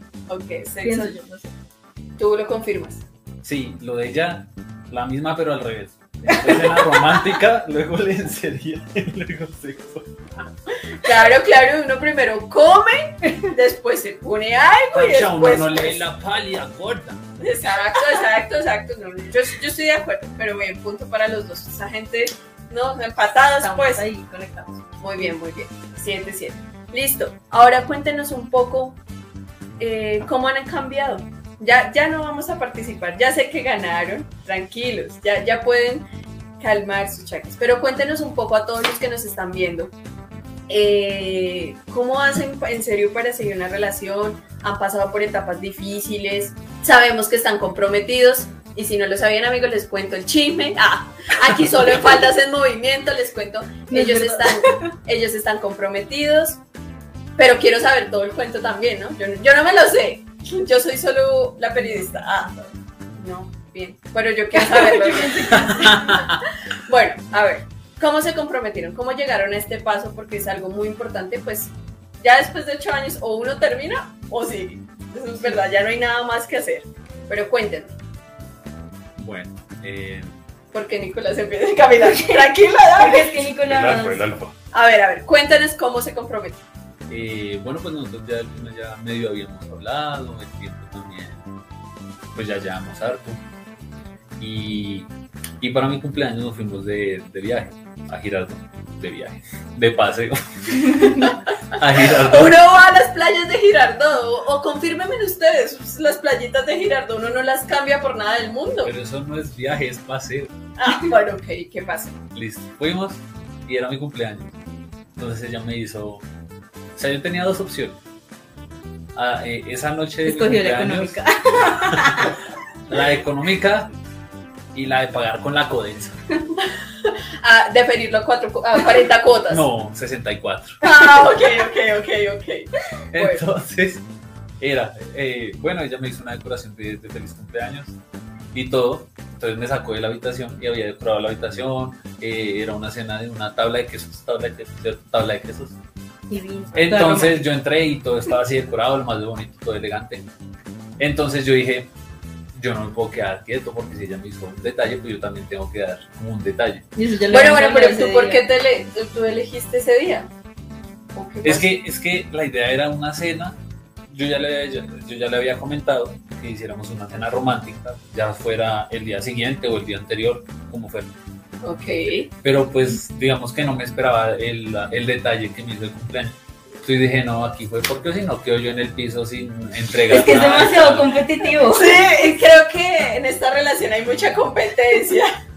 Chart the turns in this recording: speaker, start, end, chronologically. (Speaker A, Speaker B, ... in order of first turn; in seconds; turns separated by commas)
Speaker A: 0.3-1.1, Speaker B: 0.8-1.5, Speaker A: 2.2-3.0, Speaker C: 3.4-10.1, Speaker B: 6.3-6.9, Speaker A: 11.0-16.1, Speaker C: 14.9-17.2, Speaker A: 17.4-24.1, Speaker B: 23.6-24.8, Speaker A: 25.0-29.0, Speaker A: 29.8-36.0, Speaker A: 36.6-39.9, Speaker A: 40.7-56.6, Speaker B: 53.9-54.9, Speaker A: 57.4-62.5, Speaker B: 61.8-62.4, Speaker A: 63.1-66.3, Speaker B: 64.5-66.2, Speaker C: 65.7-66.3, Speaker A: 66.8-78.0, Speaker C: 79.2-80.3, Speaker A: 80.7-83.5, Speaker B: 82.0-84.2, Speaker C: 83.7-84.5, Speaker A: 84.7-86.6, Speaker C: 87.1-91.4, Speaker C: 92.3-93.4, Speaker C: 94.4-95.1, Speaker C: 95.6-101.0, Speaker B: 100.9-101.3, Speaker C: 101.7-102.6, Speaker A: 102.1-108.9, Speaker C: 108.8-110.5, Speaker A: 110.8-112.2, Speaker C: 112.3-114.5, Speaker C: 115.2-116.2, Speaker C: 117.0-118.0, Speaker C: 119.1-122.3, Speaker B: 120.2-122.3, Speaker C: 122.9-123.9, Speaker C: 124.7-126.2, Speaker A: 126.6-129.7, Speaker C: 129.5-130.8, Speaker A: 130.8-133.4, Speaker C: 133.1-134.0, Speaker C: 134.6-137.9, Speaker C: 138.5-145.8, Speaker B: 146.3-147.4, Speaker C: 146.7-150.3, Speaker C: 151.0-151.9, Speaker C: 152.5-156.8, Speaker B: 156.9-158.4, Speaker A: 157.3-160.3, Speaker A: 161.1-161.7, Speaker C: 161.4-163.6, Speaker C: 164.1-171.1, Speaker A: 171.6-172.3, Speaker C: 172.4-181.1, Speaker B: 180.1-182.0, Speaker A: 181.6-185.3